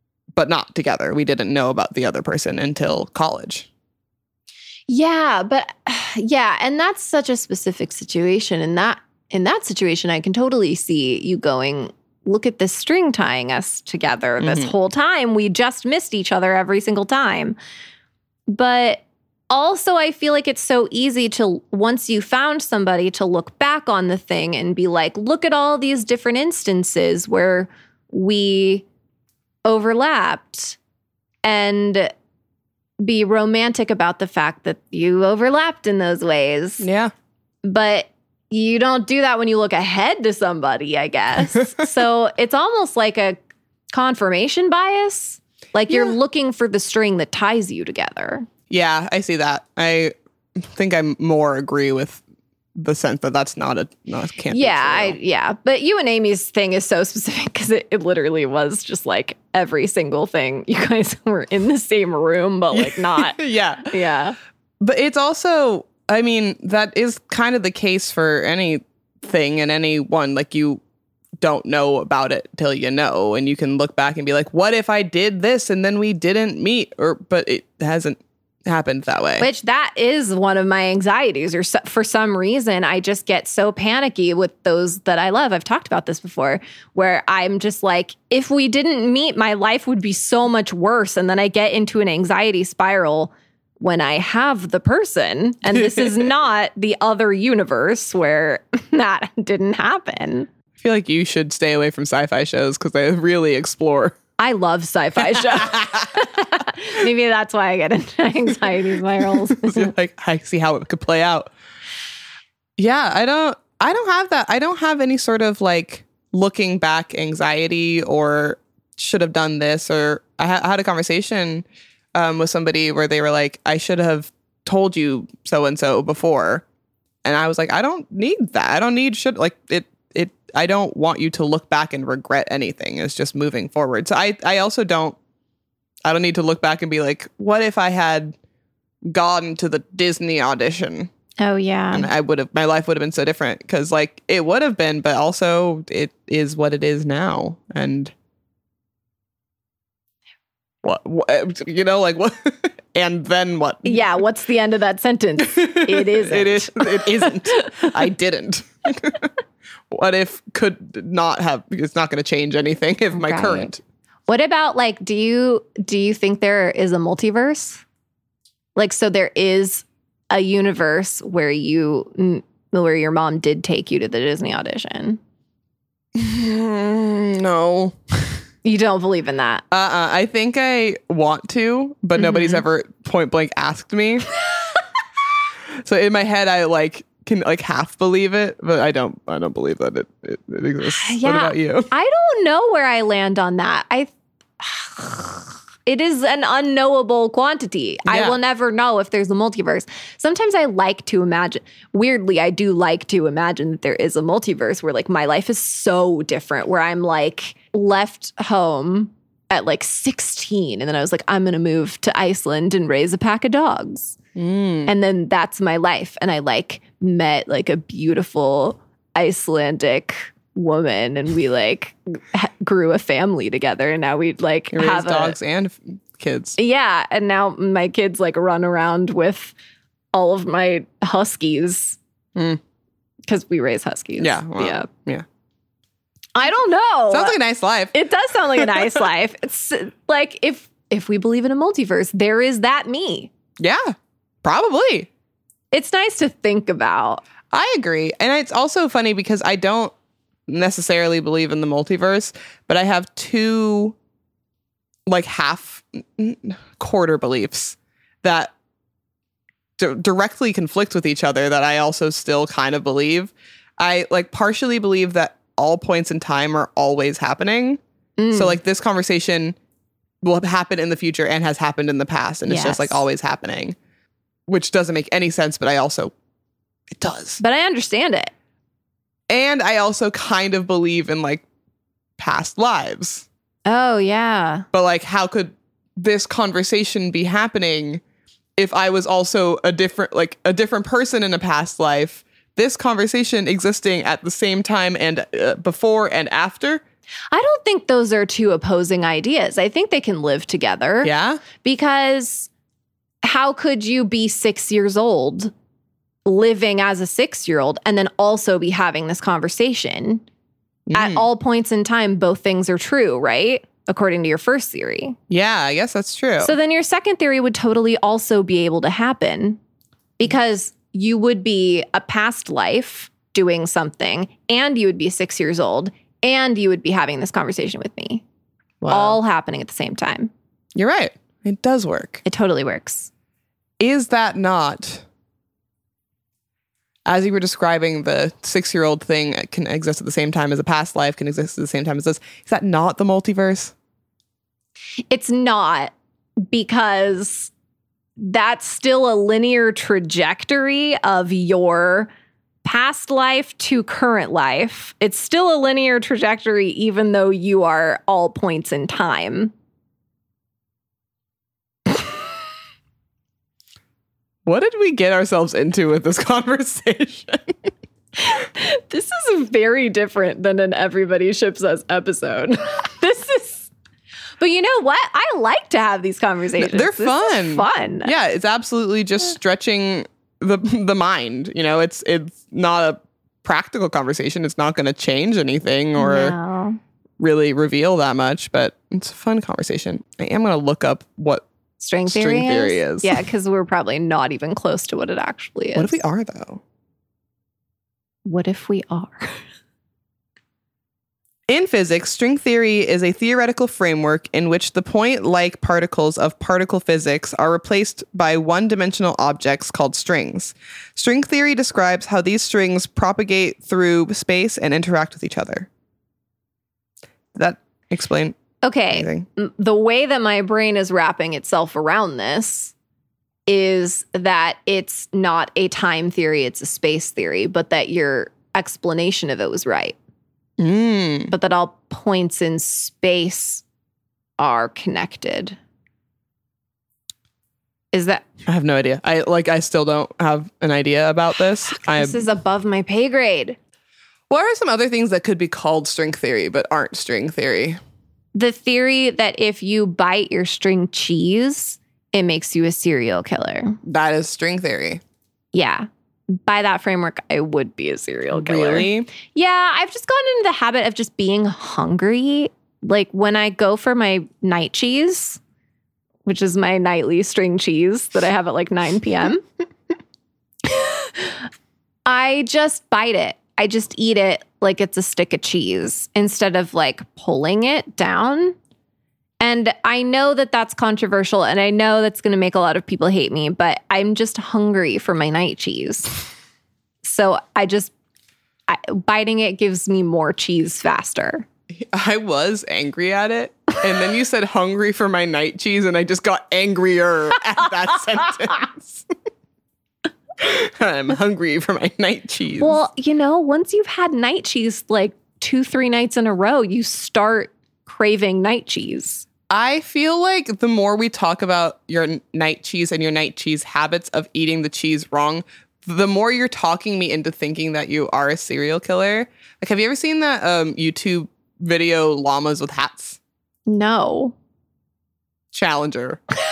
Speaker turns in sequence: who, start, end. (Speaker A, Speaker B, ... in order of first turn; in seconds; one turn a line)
Speaker A: 0.3-3.7
Speaker B: 4.9-17.6
Speaker A: 14.4-14.7
Speaker B: 18.5-28.9
Speaker B: 29.6-30.8
Speaker B: 31.4-32.1
Speaker B: 33.0-36.9
Speaker A: 36.8-37.1
Speaker B: 37.6-43.4
Speaker B: 43.9-48.5
Speaker A: 45.9-46.1
Speaker A: 48.7-52.2
Speaker A: 52.7-55.2
Speaker B: 54.5-64.4
Speaker A: 62.7-63.9
Speaker A: 64.8-70.8
Speaker A: 71.4-79.5
Speaker B: 79.4-100.5
Speaker A: 95.7-96.2
Speaker A: 100.8-104.2
Speaker B: 104.4-109.9
Speaker A: 105.3-106.2
Speaker A: 109.2-111.5
Speaker A: 112.8-126.6
Speaker A: 127.2-135.2
Speaker A: 136.0-138.3
Speaker A: 139.1-141.1
Speaker B: 141.4-142.1
Speaker A: 141.9-148.1
Speaker A: 150.8-154.1
Speaker B: 153.8-157.9
Speaker A: 155.4-159.3
Speaker A: 159.9-163.8
Speaker B: 163.1-163.7
Speaker B: 164.3-167.8
Speaker B: 168.8-175.2
Speaker A: 176.1-178.4
Speaker B: 178.6-179.6
Speaker A: 179.7-184.3
Speaker B: 182.2-182.6
Speaker A: 185.8-191.9
Speaker B: 190.9-214.2
Speaker A: 198.1-198.4
Speaker A: 214.3-214.9
Speaker B: 214.8-225.3
Speaker A: 224.7-226.6
Speaker B: 226.6-229.5
Speaker B: 230.1-232.0
Speaker A: 232.3-232.6
Speaker B: 233.3-234.9
Speaker A: 234.2-235.2
Speaker B: 236.3-237.4
Speaker A: 237.1-237.9
Speaker B: 237.9-243.3
Speaker A: 238.6-238.9
Speaker A: 243.6-245.1
Speaker B: 245.7-247.2
Speaker A: 247.5-249.9
Speaker A: 250.5-253.9
Speaker A: 255.1-258.5
Speaker A: 259.8-267.8
Speaker B: 268.2-268.6
Speaker A: 268.3-269.6
Speaker A: 270.2-273.8
Speaker B: 272.5-273.0
Speaker A: 274.5-276.1
Speaker A: 276.9-277.4
Speaker B: 277.4-278.3
Speaker A: 279.3-281.4
Speaker A: 282.2-283.2
Speaker B: 283.6-284.7
Speaker A: 284.7-288.0
Speaker A: 288.6-296.8
Speaker B: 297.3-302.5
Speaker A: 301.0-301.4
Speaker B: 303.2-305.5
Speaker B: 306.2-310.2
Speaker A: 310.9-311.2
Speaker B: 310.9-315.2
Speaker A: 315.3-316.5
Speaker B: 316.4-319.6
Speaker B: 320.2-328.2
Speaker A: 328.8-329.2
Speaker B: 328.9-330.3
Speaker A: 330.7-332.2
Speaker B: 332.2-333.1
Speaker A: 333.8-335.0
Speaker A: 337.1-343.7
Speaker B: 345.1-345.9
Speaker B: 346.5-347.5
Speaker B: 348.2-352.1
Speaker B: 352.6-359.5
Speaker A: 364.4-367.7
Speaker B: 368.2-373.7
Speaker B: 374.4-378.1
Speaker A: 376.6-386.4
Speaker B: 386.0-386.8
Speaker A: 387.2-391.4
Speaker B: 391.8-396.0
Speaker A: 392.1-393.2
Speaker A: 395.7-396.6
Speaker B: 398.2-399.4
Speaker A: 401.5-415.7
Speaker A: 417.3-418.4
Speaker B: 418.6-422.7
Speaker A: 418.9-419.2
Speaker B: 423.5-430.0
Speaker A: 430.6-431.3
Speaker B: 431.3-433.6
Speaker B: 434.4-435.6
Speaker B: 437.9-438.2
Speaker A: 438.4-442.2
Speaker B: 441.8-443.6
Speaker A: 444.3-447.8
Speaker B: 448.3-453.8
Speaker A: 453.8-455.0
Speaker B: 455.5-465.4
Speaker A: 458.3-459.1
Speaker B: 466.2-469.4
Speaker B: 470.6-471.4
Speaker B: 472.1-478.6
Speaker B: 479.4-486.2
Speaker B: 487.0-487.9
Speaker B: 488.7-491.4
Speaker A: 491.7-499.1
Speaker A: 500.4-502.8
Speaker B: 502.6-509.2
Speaker A: 509.5-523.2
Speaker B: 523.7-524.3
Speaker A: 525.5-526.2